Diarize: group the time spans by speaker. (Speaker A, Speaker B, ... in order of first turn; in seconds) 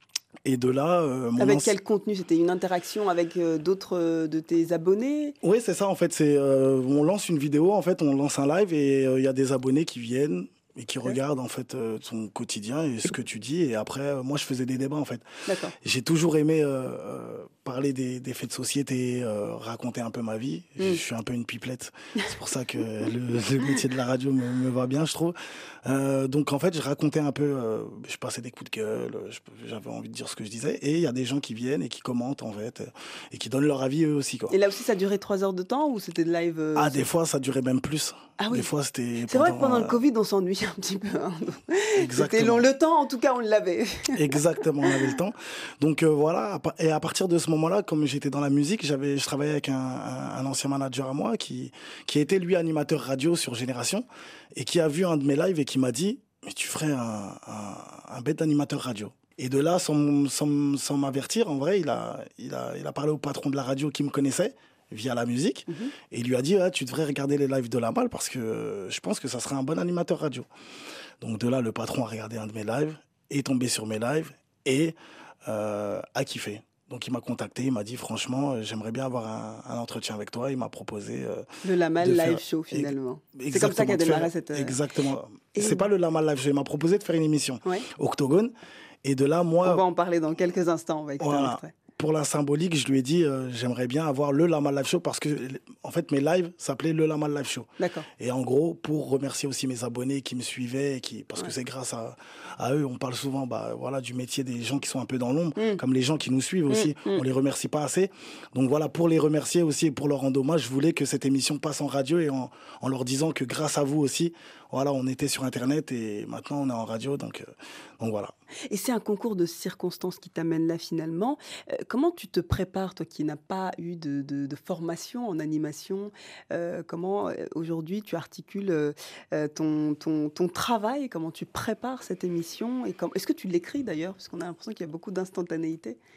Speaker A: 0.4-1.7, 5.4-15.2, 15.8-34.5, 36.7-40.0, 42.0-42.7, 44.1-70.5, 71.2-81.5, 82.0-88.5, 89.0-89.8, 91.2-118.3
Speaker B: 1.4-5.4, 15.5-15.7, 34.5-37.1, 38.4-38.7, 39.3-44.1, 81.6-84.8, 85.6-85.8, 89.6-91.7, 97.8-98.1, 106.7-107.2, 118.7-136.0